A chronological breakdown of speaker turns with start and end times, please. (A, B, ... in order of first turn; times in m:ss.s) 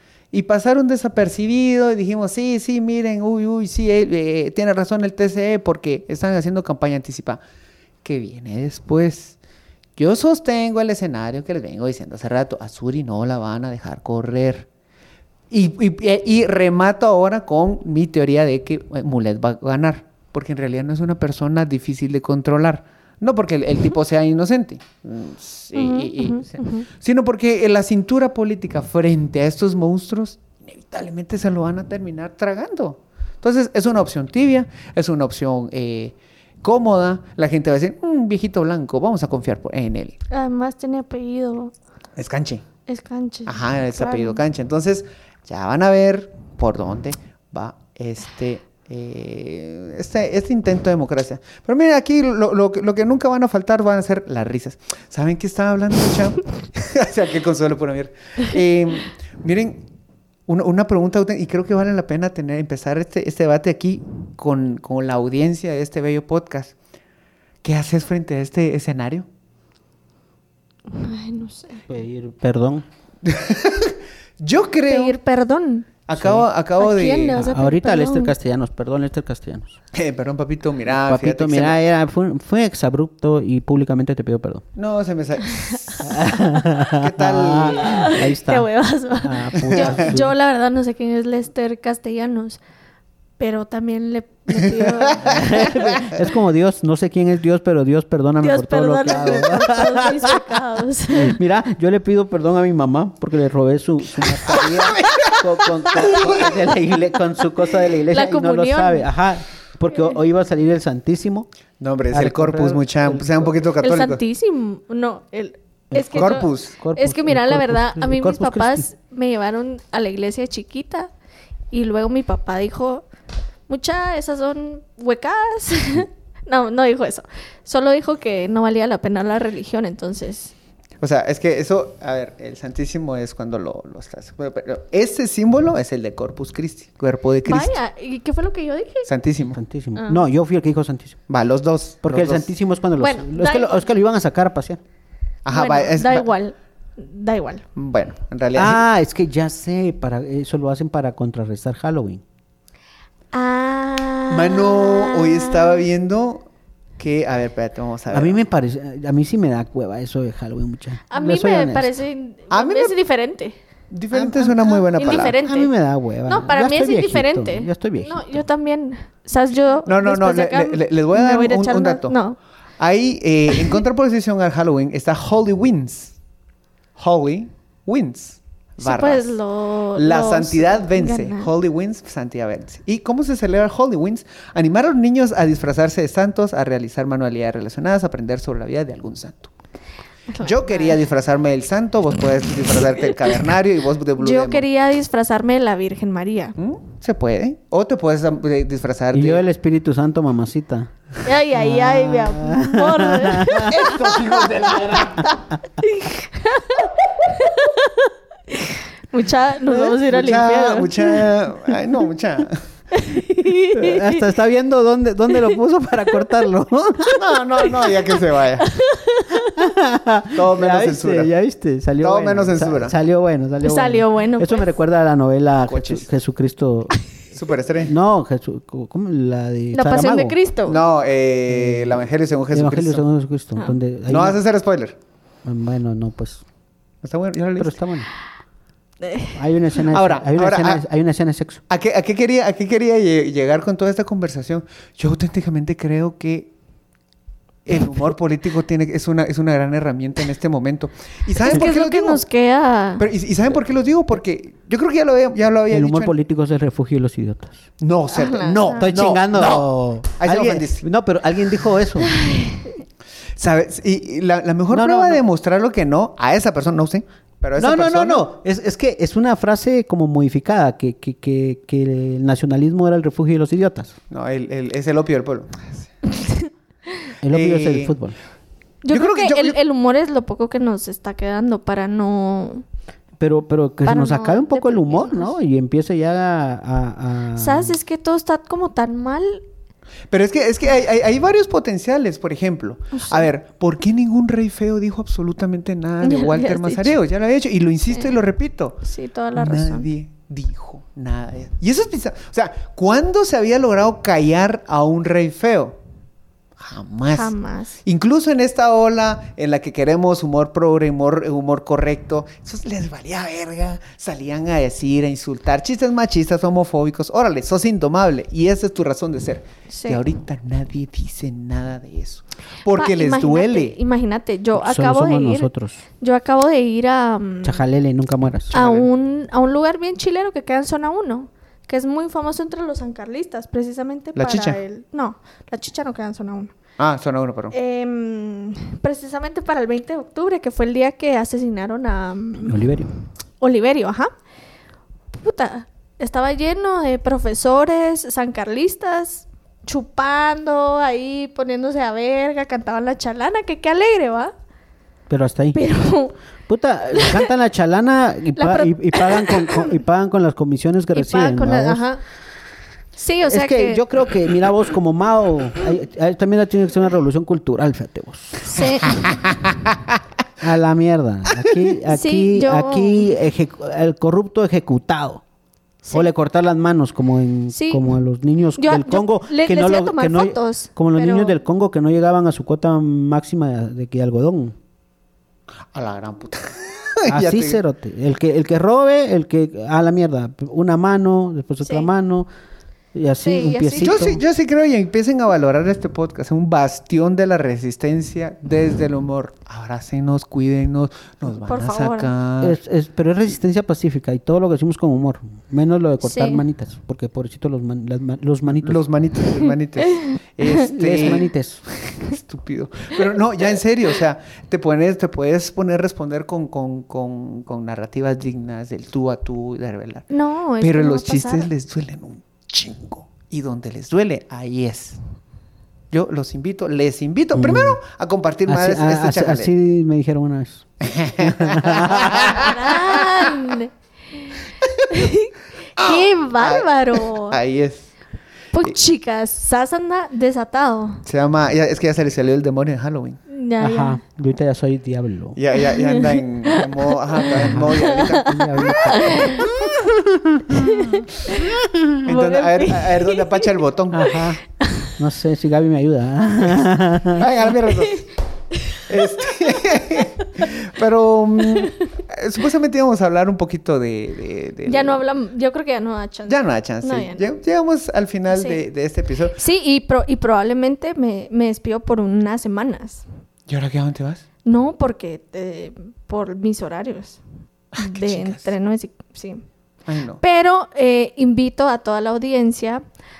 0:00.3-0:07.4 A
0:08.0-0:09.4 A
0:10.0-0:14.7 A
0:15.5-0:40.1 A
0:25.7-0:26.9 B
0:40.3-0:41.7 B
0:42.2-0:42.6 A
0:42.9-0:44.4 B
0:43.4-0:59.8 A
1:00.5-1:06.7 A
1:07.6-1:09.2 A
1:10.9-1:11.8 B
1:11.9-1:12.8 C
1:13.2-1:15.2 A
1:14.9-1:15.9 B
1:16.1-1:17.4 A
1:16.2-1:16.4 C
1:16.8-1:18.3 B
1:17.3-1:19.8 C
1:19.9-1:21.8 A
1:20.9-1:24.6 C
1:24.8-1:26.2 A
1:26.0-1:30.3 C
1:26.8-1:28.2 A
1:27.9-1:32.6 B
1:29.6-1:30.1 A
1:33.4-1:36.0 B
1:34.8-1:35.4 A
1:35.2-1:40.5 C
1:38.4-1:41.4 B
1:41.1-1:51.5 C
1:44.4-1:46.5 A
1:48.1-1:49.1 B
1:51.8-1:54.2 A
1:52.1-1:53.5 C
1:53.8-2:01.1 B
1:55.9-1:58.9 C
1:56.1-1:56.7 A
2:01.7-2:03.0 B
2:03.7-2:10.5 B
2:11.0-2:17.8 A
2:17.4-2:19.1 B
2:19.0-2:19.6 A
2:19.5-2:21.2 C
2:20.0-2:20.2 B
2:21.3-2:22.5 A
2:22.0-2:24.8 C
2:23.0-2:23.8 B
2:25.4-2:26.3 A
2:25.5-2:27.6 B
2:27.8-2:28.8 A
2:28.5-2:32.2 C
2:33.3-2:35.8 B
2:34.3-2:36.4 A
2:37.0-2:38.4 A
2:38.1-2:41.9 C
2:41.1-2:43.6 B
2:42.5-2:42.9 A
2:43.9-2:45.4 A
2:44.1-2:48.2 C
2:44.9-2:45.7 B
2:46.3-2:52.4 B
2:49.8-2:52.2 A
2:52.8-2:56.2 A
2:53.5-2:53.8 B
2:57.0-2:59.4 A
2:58.8-3:01.5 B
2:59.9-3:09.5 A
3:10.3-3:14.6 A
3:10.4-3:10.9 B
3:14.2-3:16.6 B
3:16.6-3:19.4 A
3:19.1-3:25.5 C
3:21.2-3:24.0 B
3:23.6-3:25.3 A
3:25.8-3:31.3 B
3:29.7-3:30.0 C
3:30.1-3:32.6 A
3:32.9-3:34.2 B
3:33.7-3:37.2 C
3:37.1-3:38.7 A
3:38.6-3:39.6 B
3:39.3-3:47.0 C
3:40.3-3:41.3 A
3:42.0-3:42.9 A
3:43.6-3:44.7 B
3:45.7-3:46.0 A
3:47.3-3:47.9 A
3:47.8-3:50.4 C
3:49.7-3:50.8 B
3:50.7-3:53.0 A
3:51.5-3:54.4 C
3:54.1-3:55.0 A
3:55.4-3:56.4 C
3:57.0-3:57.8 A
3:57.6-3:58.1 C
3:59.0-3:59.4 B
3:59.3-4:01.6 C
3:59.9-4:00.8 A
4:01.7-4:06.5 A
4:07.6-4:12.2 A
4:11.4-4:13.0 B
4:13.0-4:16.1 A
4:15.7-4:17.6 C
4:17.8-4:20.8 A
4:18.1-4:18.9 B
4:18.8-4:22.1 C
4:22.0-4:22.7 B
4:23.4-4:28.3 A
4:24.7-4:25.2 C
4:27.6-4:34.0 C
4:34.1-4:35.9 A
4:36.2-4:36.5 B
4:37.2-4:38.2 C
4:37.3-4:37.9 A
4:38.8-4:42.6 B
4:38.9-4:39.6 A
4:43.2-4:47.8 C
4:43.8-4:45.3 B
4:47.4-4:49.4 B
4:50.1-4:58.8 A
4:52.9-4:53.3 B
4:56.0-4:57.0 B
4:58.8-4:59.9 B
4:59.3-5:05.8 A
5:06.6-5:07.3 A
5:07.2-5:07.8 B
5:07.8-5:23.8 A
5:19.7-5:20.0 B
5:22.7-5:25.5 B
5:24.5-5:25.8 C
5:26.0-5:27.6 B
5:27.4-5:28.5 C
5:28.5-5:28.9 A
5:28.5-5:36.5 B
5:34.2-5:34.6 A
5:36.8-5:37.5 A
5:37.5-5:42.6 B
5:42.4-5:42.9 C
5:43.4-5:44.1 B
5:45.1-5:54.3 B
5:55.1-5:55.6 C
5:55.5-5:56.1 B
5:56.5-6:01.8 C
5:56.9-5:57.3 B
5:58.4-5:59.7 B
6:00.9-6:02.0 B
6:03.0-6:03.8 B
6:03.2-6:08.6 C
6:08.4-6:09.2 B
6:09.2-6:09.8 A
6:10.4-6:15.2 C
6:11.8-6:13.1 B
6:15.9-6:24.6 C
6:17.5-6:17.9 B
6:18.6-6:21.3 B
6:25.7-6:27.6 A
6:27.1-6:32.3 C
6:31.6-6:31.9 B
6:32.9-6:34.2 C
6:33.2-6:34.0 B
6:33.8-6:42.6 A
6:41.3-6:42.1 B
6:42.4-6:48.8 C
6:46.0-6:46.4 B
6:48.5-6:51.2 A
6:50.7-6:51.6 C
6:52.0-7:00.0 A
7:00.1-7:01.5 B
7:00.6-7:05.0 A
7:05.9-7:09.5 A
7:07.3-7:07.8 C
7:08.4-7:12.6 C
7:10.8-7:13.3 A
7:12.1-7:17.4 B
7:14.6-7:15.1 A
7:15.8-7:17.9 A
7:18.5-7:21.0 B
7:21.0-7:23.2 A
7:23.3-7:24.0 B
7:23.6-7:25.4 C
7:25.3-7:28.8 A
7:25.7-7:26.8 B
7:27.3-7:32.0 C
7:27.9-7:29.7 B
7:30.5-7:33.5 B
7:32.0-7:34.2 A
7:33.9-7:34.4 C
7:34.6-7:34.9 B
7:35.0-7:37.3 C
7:37.2-7:38.1 A
7:38.7-7:45.0 A
7:44.7-7:47.2 B
7:46.3-7:49.4 A
7:48.3-7:48.6 B
7:49.4-7:53.0 B
7:53.5-7:54.2 A
7:54.4-7:57.2 B
7:57.8-7:58.5 A
7:57.8-7:59.4 B
7:59.9-8:00.2 A
8:00.2-8:02.8 B